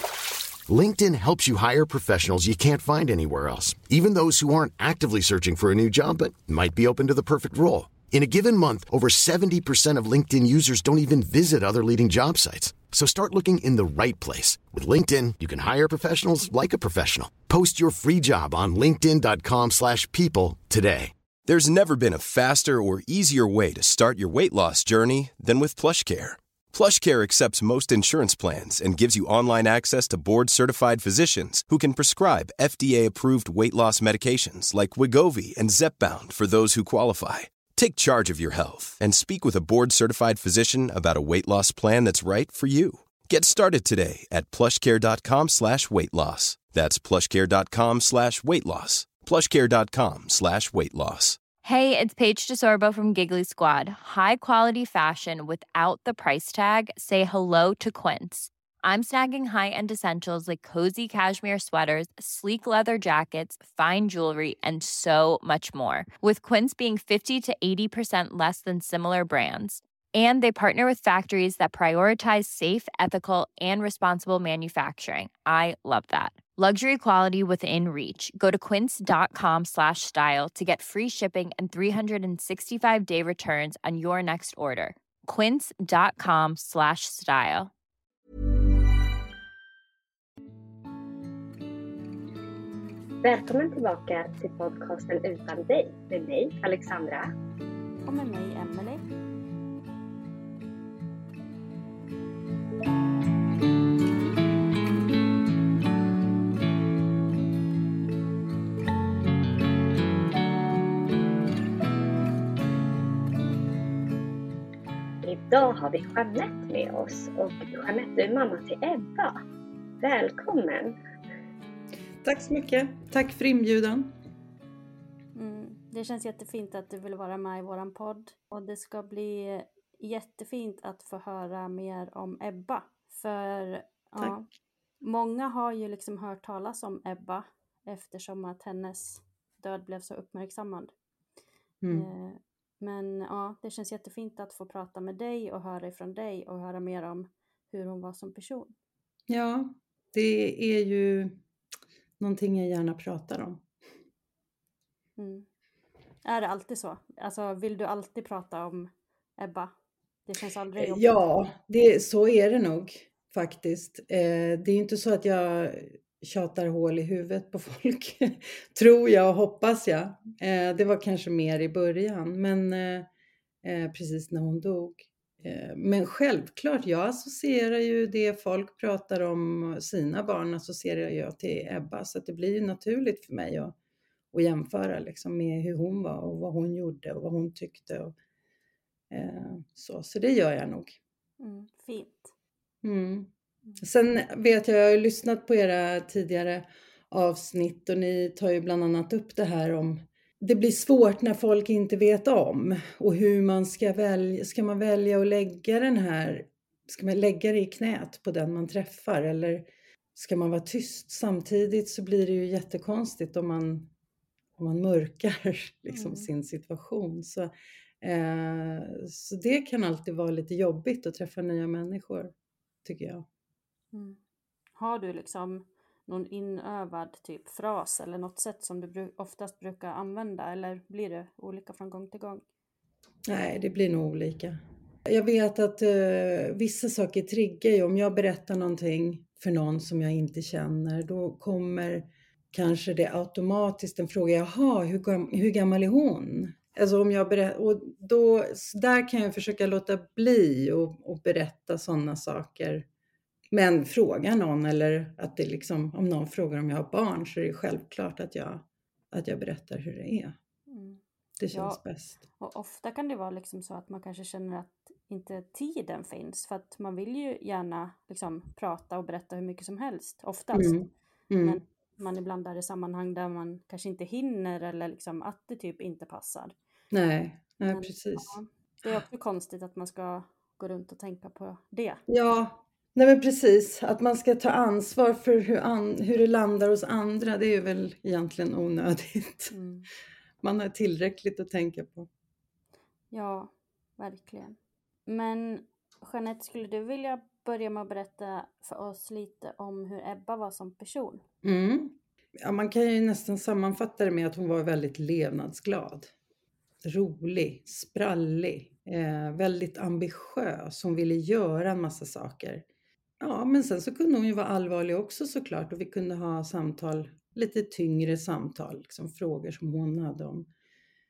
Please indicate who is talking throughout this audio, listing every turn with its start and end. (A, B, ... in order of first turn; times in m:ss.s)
0:00.7-0:21.1 A
0:21.5-0:51.4 B
0:51.6-1:27.7 C
1:33.2-1:37.3 D
1:38.0-1:39.0 E
1:55.2-1:59.4 D
2:00.0-2:01.0 D
2:02.2-2:04.1 F
2:05.4-2:14.5 E
2:15.0-2:20.9 E
2:21.8-2:22.1 F
2:21.9-2:28.7 E
2:29.3-2:31.4 F
2:32.2-2:33.6 F
2:35.2-2:35.5 E
2:36.2-2:39.7 E
2:40.3-2:41.2 E
2:40.8-2:53.1 F
2:53.6-3:03.8 F
3:04.3-3:08.2 F
3:09.1-3:11.0 F
3:11.4-3:12.3 E
3:12.8-3:13.3 F
3:13.8-3:33.9 F
3:34.6-3:37.5 F
3:35.9-3:36.3 E
3:38.0-3:42.3 F
3:42.8-3:43.2 F
3:43.9-3:44.2 E
3:44.8-3:52.4 E
3:53.3-4:12.9 F
4:13.5-4:20.4 F
4:20.7-4:21.0 E
4:21.4-4:22.2 F
4:21.5-4:21.8 E
4:22.4-4:30.8 E
4:30.5-4:31.6 F
4:31.4-4:36.5 E
4:36.9-4:39.0 F
4:37.7-4:42.0 E
4:42.1-4:49.5 F
4:49.5-4:49.9 E
4:50.4-4:52.1 F
4:53.1-5:01.2 E
5:01.4-5:06.1 F
5:06.8-5:12.6 F
5:13.2-5:20.5 F